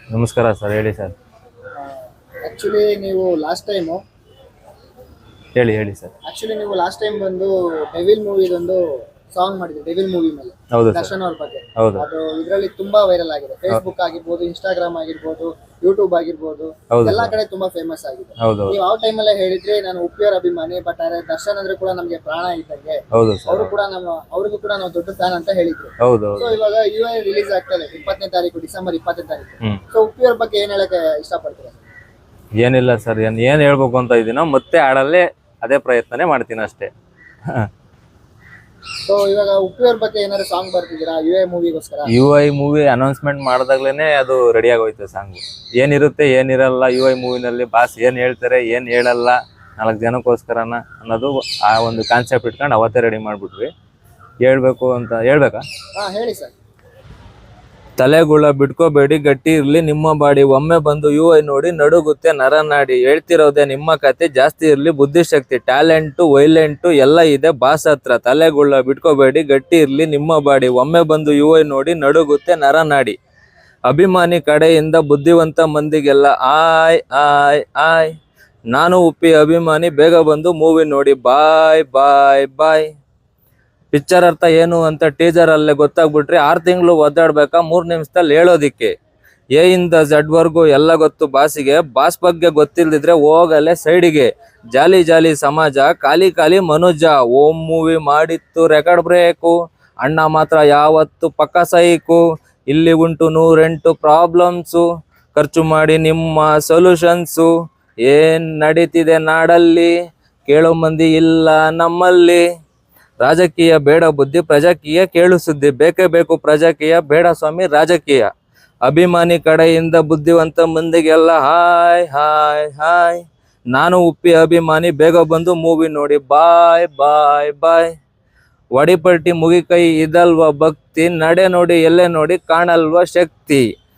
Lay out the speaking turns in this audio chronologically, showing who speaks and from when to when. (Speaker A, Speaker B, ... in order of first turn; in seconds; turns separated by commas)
Speaker A: 0.1-1.1, Speaker B: 1.8-4.0, Speaker A: 5.5-6.1, Speaker B: 6.2-31.8, Speaker A: 10.7-11.1, Speaker A: 11.8-12.0, Speaker A: 16.9-17.3, Speaker A: 18.4-18.8, Speaker A: 23.1-23.7, Speaker A: 26.0-26.5, Speaker A: 32.6-36.9, Speaker B: 39.0-42.1, Speaker A: 42.1-53.7, Speaker A: 54.4-55.6, Speaker B: 56.0-56.5, Speaker A: 58.0-73.1, Speaker A: 73.9-78.1, Speaker A: 78.7-82.9, Speaker A: 83.9-88.9, Speaker A: 89.5-107.5, Speaker A: 108.0-109.9, Speaker A: 110.5-112.4, Speaker A: 113.2-118.3, Speaker A: 118.8-123.2, Speaker A: 123.7-127.9, Speaker A: 128.7-133.6